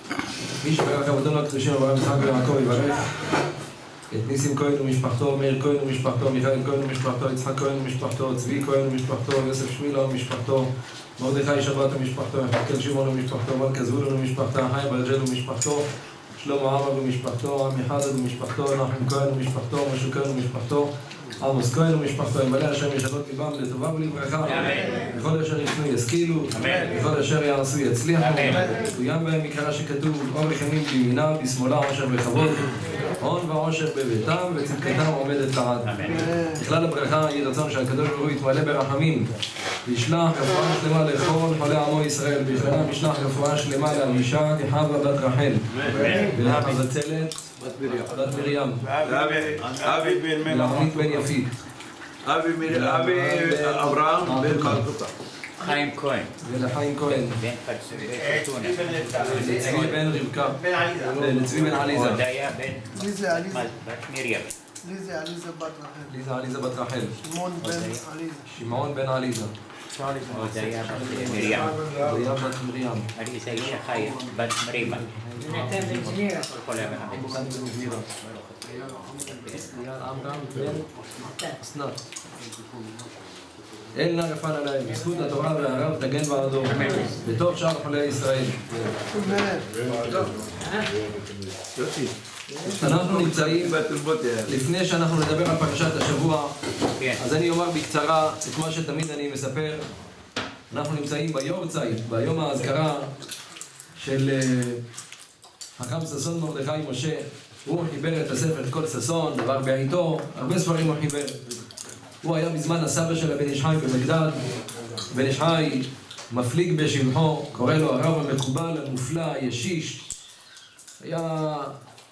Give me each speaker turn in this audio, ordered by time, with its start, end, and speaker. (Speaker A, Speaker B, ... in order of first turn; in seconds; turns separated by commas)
Speaker A: 0.6-3.1, Speaker A: 4.1-35.9, Speaker B: 24.5-25.0, Speaker B: 26.5-26.9, Speaker B: 28.2-28.7, Speaker B: 35.9-36.3, Speaker C: 36.0-36.6, Speaker A: 36.5-39.3, Speaker A: 39.9-47.5, Speaker D: 45.8-46.2, Speaker B: 45.9-46.3, Speaker A: 48.1-48.9, Speaker D: 48.9-51.2, Speaker A: 50.4-51.6, Speaker D: 52.2-55.1, Speaker A: 52.7-54.9, Speaker B: 55.6-56.4, Speaker A: 56.4-57.4, Speaker B: 57.1-60.0, Speaker A: 59.3-62.2, Speaker B: 61.8-64.5, Speaker C: 62.9-63.7, Speaker C: 64.8-66.1, Speaker A: 66.1-67.2, Speaker C: 67.2-68.5, Speaker B: 67.7-67.9, Speaker A: 68.5-69.5, Speaker B: 70.0-71.8, Speaker A: 71.0-73.1, Speaker B: 73.2-79.6, Speaker A: 75.0-76.2, Speaker A: 77.1-78.1, Speaker A: 79.5-80.9, Speaker A: 81.6-82.0, Speaker A: 83.9-88.7, Speaker B: 86.7-87.1, Speaker C: 89.1-89.8, Speaker D: 89.9-90.3, Speaker D: 91.2-94.5, Speaker A: 92.7-93.8, Speaker A: 94.5-96.5, Speaker A: 97.2-99.9, Speaker A: 100.7-103.1, Speaker A: 104.0-104.8, Speaker A: 105.8-111.4, Speaker A: 112.2-114.4, Speaker A: 115.1-120.0, Speaker A: 121.0-121.8